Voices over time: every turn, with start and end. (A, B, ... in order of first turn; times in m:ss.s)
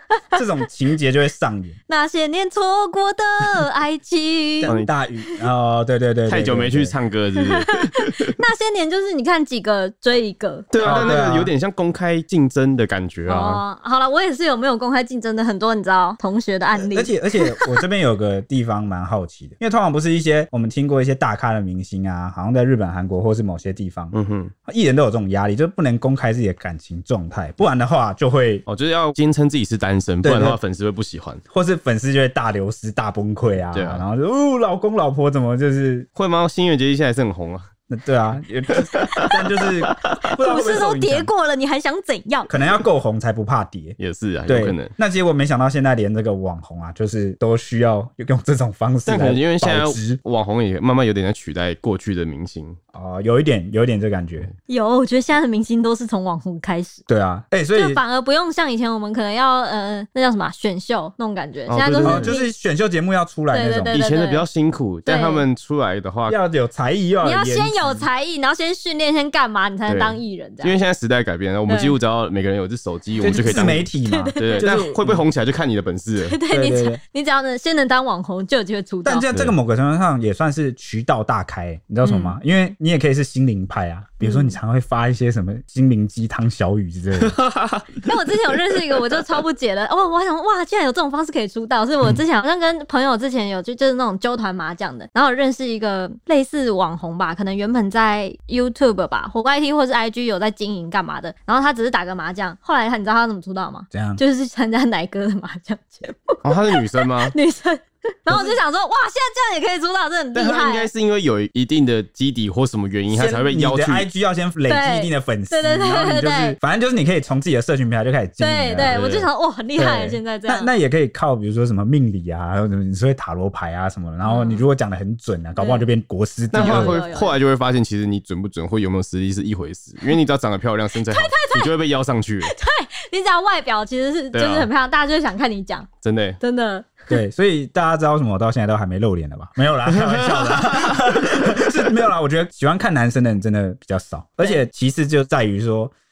0:00.3-0:01.8 A
0:01.9-0:04.7 B
0:04.6-0:07.0 A
0:04.7-0:04.9 C
0:06.3-0:08.4 C
0:07.4-0:11.1 B
0:10.7-0:13.6 C
0:10.8-0:11.5 A
0:13.3-0:17.7 B
0:16.8-0:28.6 A
0:24.1-0:24.5 C
0:28.6-0:31.4 C
0:30.2-0:30.6 A
0:31.5-0:36.1 A
0:33.7-0:34.0 C
0:36.2-0:37.7 C
0:37.9-0:41.3 A
0:38.7-0:40.4 C
0:40.2-0:42.5 B
0:42.5-0:50.2 A
0:44.0-0:44.9 C
0:49.0-0:52.8 C
0:52.9-0:54.5 A
0:54.7-0:57.0 B
0:57.1-0:58.0 A
0:57.7-1:02.5 B
1:01.7-1:02.3 C
1:02.0-1:04.0 A
1:03.5-1:04.4 B
1:03.9-1:06.4 C
1:05.0-1:05.4 B
1:06.3-1:08.0 A
1:07.2-1:10.8 B
1:09.9-1:16.4 C
1:11.7-1:12.0 B
1:13.2-1:15.2 A
1:14.1-1:14.9 B
1:16.2-1:19.2 B
1:16.5-1:17.0 A
1:19.0-1:27.4 A
1:22.0-1:22.4 B
1:24.2-1:24.6 B
1:27.2-1:29.2 C
1:28.0-1:50.9 B
1:43.9-1:44.2 A
1:46.4-1:47.3 C
1:48.3-1:48.6 A
1:50.3-1:54.1 C
1:53.1-1:59.0 A
1:54.7-1:56.6 B
1:58.4-2:00.7 B
1:58.8-1:59.3 C
1:59.8-2:07.0 A
2:04.2-2:04.7 B
2:05.6-2:05.9 B
2:06.5-2:12.5 C
2:06.5-2:07.4 B
2:11.0-2:11.7 B
2:12.4-2:15.9 B
2:14.3-2:14.7 C
2:16.0-2:16.4 C
2:16.4-2:17.2 B
2:17.1-2:25.9 A
2:19.9-2:21.9 C